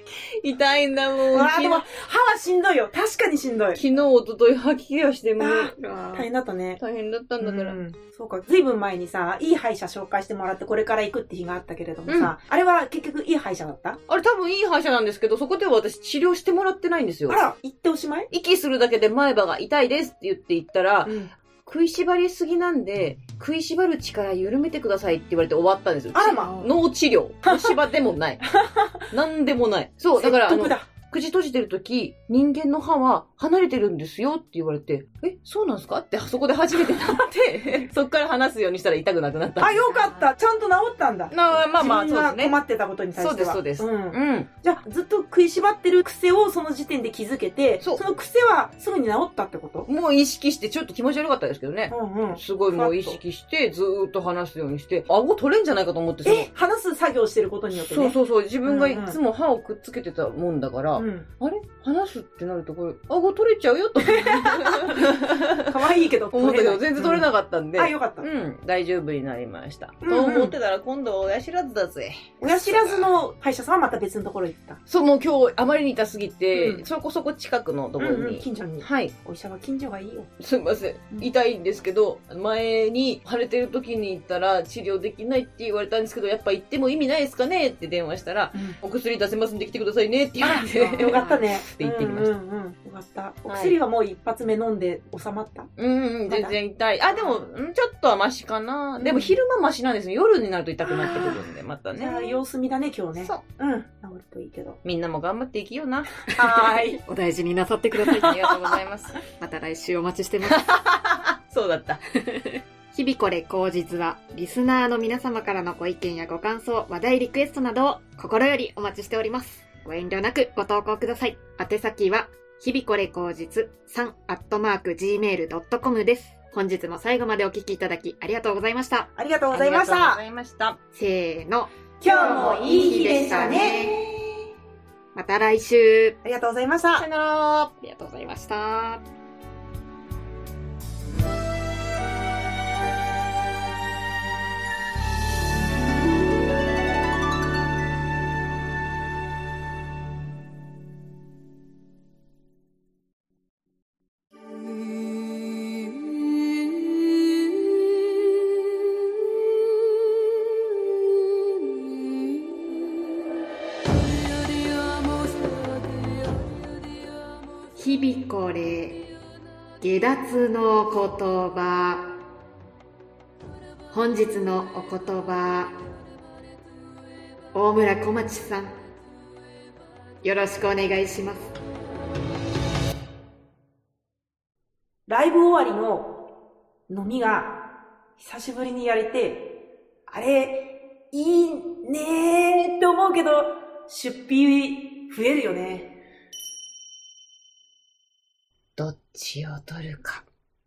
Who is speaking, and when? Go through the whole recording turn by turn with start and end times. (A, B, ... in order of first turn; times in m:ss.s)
0:00.4-0:01.8 A
0:01.3-0:03.8 B
0:03.7-0:05.7 A
0:05.4-0:06.8 B
0:05.7-0:06.3 C
0:06.8-0:07.8 A
0:07.4-0:14.0 B
0:12.1-0:12.3 A
0:14.1-0:17.4 A
0:17.3-0:18.3 B
0:18.3-0:28.5 A
0:21.0-0:21.3 B
0:26.1-0:26.7 B
0:26.2-0:26.7 C
0:27.4-0:27.8 B
0:28.5-0:28.9 B
0:29.1-0:39.9 A
0:30.2-0:30.8 B
0:39.6-0:49.9 B
0:41.3-0:42.6 A
0:43.1-0:44.5 A
0:49.9-0:56.5 A
0:51.9-0:53.2 B
0:56.2-0:59.2 B
0:57.7-1:05.8 A
1:01.0-1:01.3 B
1:04.0-1:08.3 B
1:06.3-1:13.1 A
1:10.0-1:10.6 B
1:12.4-1:14.8 B
1:14.9-1:19.1 A
1:16.5-1:16.8 B
1:18.0-1:20.3 B
1:20.4-1:32.3 A
1:30.4-1:35.7 B
1:31.0-1:31.4 C
1:33.5-1:33.8 A
1:35.8-1:42.4 A
1:36.3-1:36.5 B
1:37.1-1:37.4 B
1:39.0-1:39.4 B
1:40.8-1:41.4 B
1:42.0-1:44.8 B
1:43.2-1:43.4 A
1:44.8-1:46.2 A
1:46.3-1:47.0 B
1:46.4-1:48.5 C
1:48.2-1:49.2 A
1:49.4-1:50.8 C
1:50.5-1:52.0 A
1:52.1-2:09.1 C
2:09.2-2:10.2 B
2:09.5-2:10.8 A
2:10.9-2:14.0 C
2:12.0-2:14.1 B
2:12.1-2:12.6 A
2:15.1-2:16.2 C
2:16.2-2:17.0 B
2:17.0-2:17.7 A
2:17.8-2:19.0 C
2:47.8-2:49.1 C
2:49.8-2:52.2 C
2:53.9-2:55.8 C
2:57.5-2:58.8 C
3:00.2-3:01.5 C
3:05.1-3:06.2 B
3:06.9-3:16.0 B
3:18.8-3:20.2 A